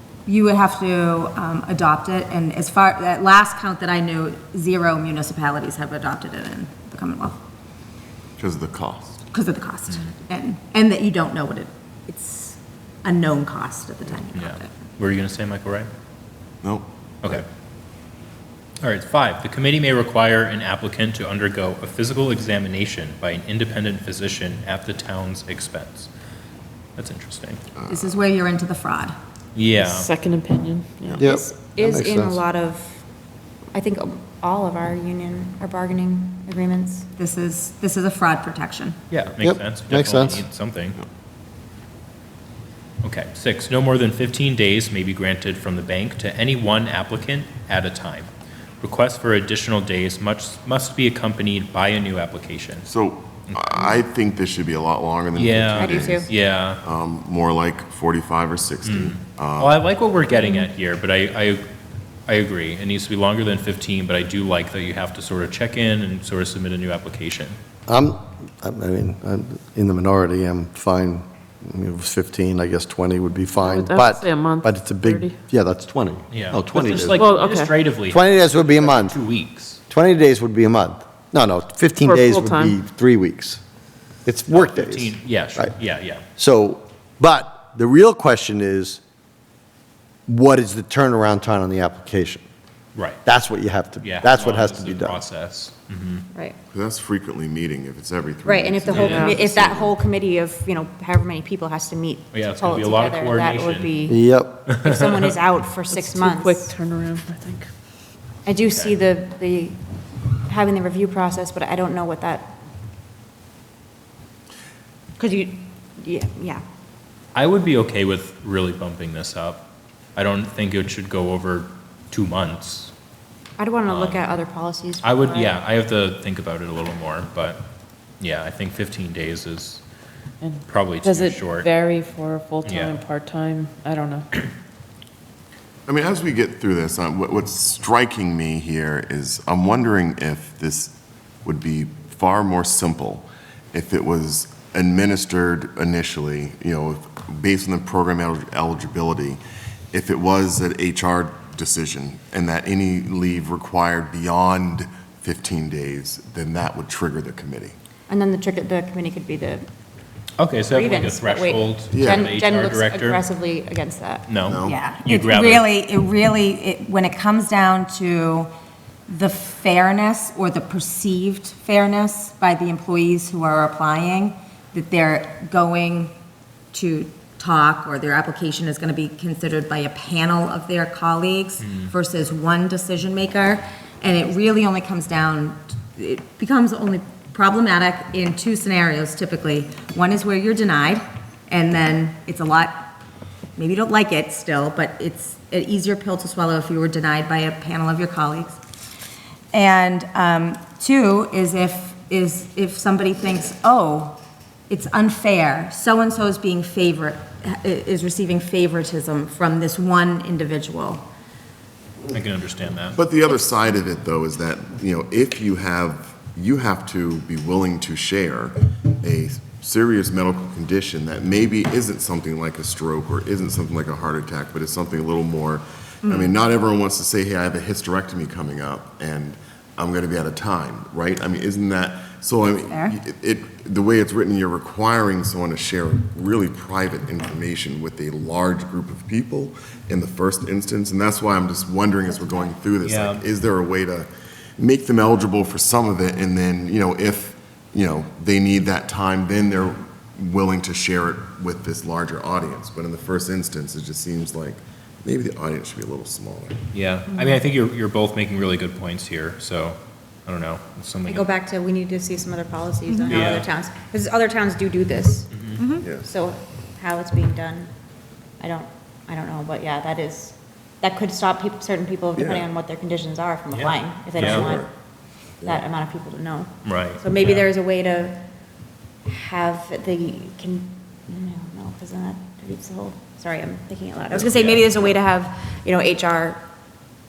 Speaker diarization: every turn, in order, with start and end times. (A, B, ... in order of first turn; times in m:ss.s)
0:00.3-0:07.4 A
0:08.4-0:09.2 B
0:09.3-0:14.7 A
0:14.3-0:15.9 C
0:16.6-0:17.4 B
0:18.8-0:26.1 C
0:27.0-0:27.6 C
0:27.9-0:29.2 A
0:29.6-0:30.1 C
0:29.8-0:31.2 D
0:31.2-0:32.4 E
0:31.2-0:33.1 F
0:33.7-0:37.1 F
0:37.2-0:39.0 A
0:39.1-0:41.0 C
0:39.4-0:40.4 E
0:43.0-0:48.3 C
0:48.8-0:52.9 C
0:52.8-0:59.8 B
0:53.5-0:54.0 C
0:55.3-0:56.8 C
0:55.8-0:56.3 F
0:58.8-1:01.6 C
1:02.3-1:07.6 C
1:07.9-1:17.3 E
1:13.6-1:15.4 D
1:16.3-1:19.8 C
1:17.2-1:17.8 D
1:18.1-1:19.2 E
1:19.9-1:23.6 E
1:22.0-1:22.8 D
1:24.2-1:25.8 E
1:24.5-1:26.2 C
1:26.4-1:29.0 E
1:30.3-1:32.4 E
1:33.0-1:33.2 C
1:33.2-1:35.2 E
1:34.0-1:36.2 C
1:36.7-1:40.0 B
1:38.4-1:46.7 F
1:38.9-1:39.3 C
1:39.0-1:39.3 D
1:42.3-1:43.9 C
1:44.1-1:44.6 E
1:44.7-1:45.3 C
1:45.9-1:47.7 D
1:48.5-1:49.8 F
1:50.4-1:52.6 F
1:55.2-1:56.6 F
1:57.3-2:02.9 C
2:03.6-2:05.6 F
2:03.9-2:04.2 C
2:05.0-2:07.7 C
2:08.2-2:09.8 C
2:10.4-2:14.3 D
2:10.7-2:11.7 C
2:12.6-2:13.0 C
2:15.9-2:29.4 B
2:29.9-2:37.8 B
2:38.1-2:39.6 F
2:40.4-2:43.2 C
2:40.7-2:44.3 F
2:41.9-2:42.3 B
2:44.3-2:45.6 C
2:44.4-2:44.8 B
2:44.6-2:48.5 A
2:49.1-2:56.1 A
2:56.7-3:12.8 A
3:01.6-3:01.9 C
3:13.6-3:18.6 A
3:19.5-3:24.2 A
3:24.7-3:31.0 A
3:32.1-3:33.0 C
3:33.0-4:16.6 B
3:46.0-3:46.3 A
3:52.7-3:53.0 A
4:02.8-4:03.3 C
4:16.7-4:21.3 C
4:21.0-4:27.7 F
4:22.9-4:23.2 A
4:23.1-4:23.5 B
4:23.1-4:23.5 C
4:25.3-4:25.6 C
4:25.6-4:25.9 A
4:25.8-4:26.1 B
4:28.4-4:34.7 F
4:32.2-4:32.5 B
4:33.5-4:34.5 C
4:34.1-4:34.7 B
4:35.4-4:38.3 F
4:36.6-4:37.5 C
4:39.1-4:46.4 F
4:44.1-4:44.4 B
4:44.3-4:44.9 C